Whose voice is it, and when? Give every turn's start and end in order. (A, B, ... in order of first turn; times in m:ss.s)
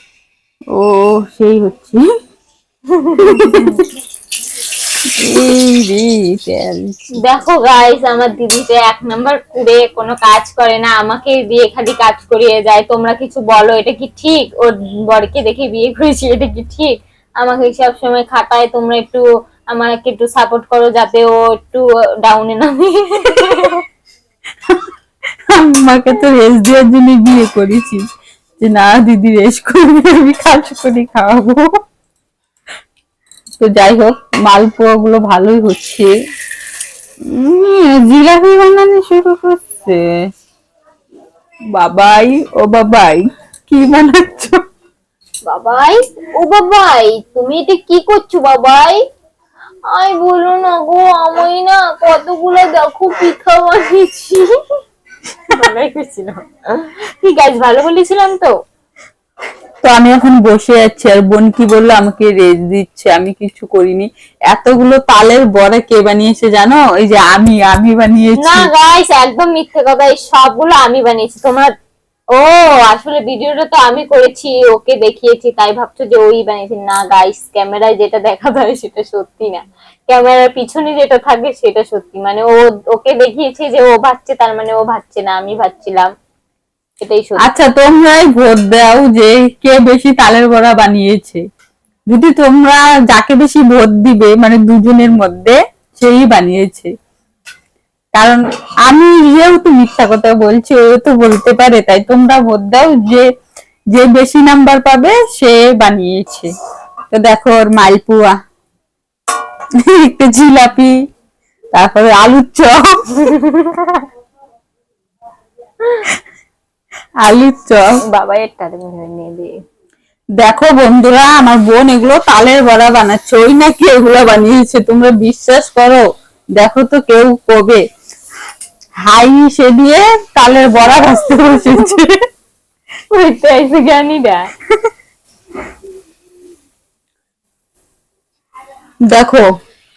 0:00.7-0:02.0 A
0:02.9-0:03.8 B
0:03.2-0:03.9 A
0:05.2-0:07.0 A
0:07.2-0:23.8 B
0:25.5-0:28.0 A
0:28.6-0:31.7 A
0:33.6-0:36.1 A
0:37.3-0:40.0 A
0:41.7-0:44.6 A
0:45.5-0:49.0 B
0:49.9-0:54.5 B
0:55.5-0:58.5 B
0:59.8-1:08.7 A
1:08.4-1:11.7 B
1:12.4-1:26.1 B
1:27.0-1:27.5 B
1:27.4-1:31.4 A
1:32.1-1:36.9 A
1:38.2-1:43.3 A
1:43.9-1:46.5 A
1:47.1-1:48.3 A
1:49.8-1:51.0 A
1:51.7-1:53.1 A
1:53.2-1:54.0 B
1:57.2-1:58.0 A
1:58.1-1:59.5 B
2:00.4-2:06.1 A
2:06.6-2:07.8 A
2:09.0-2:12.2 A
2:11.4-2:11.8 B
2:13.1-2:14.5 B
2:19.1-2:19.4 A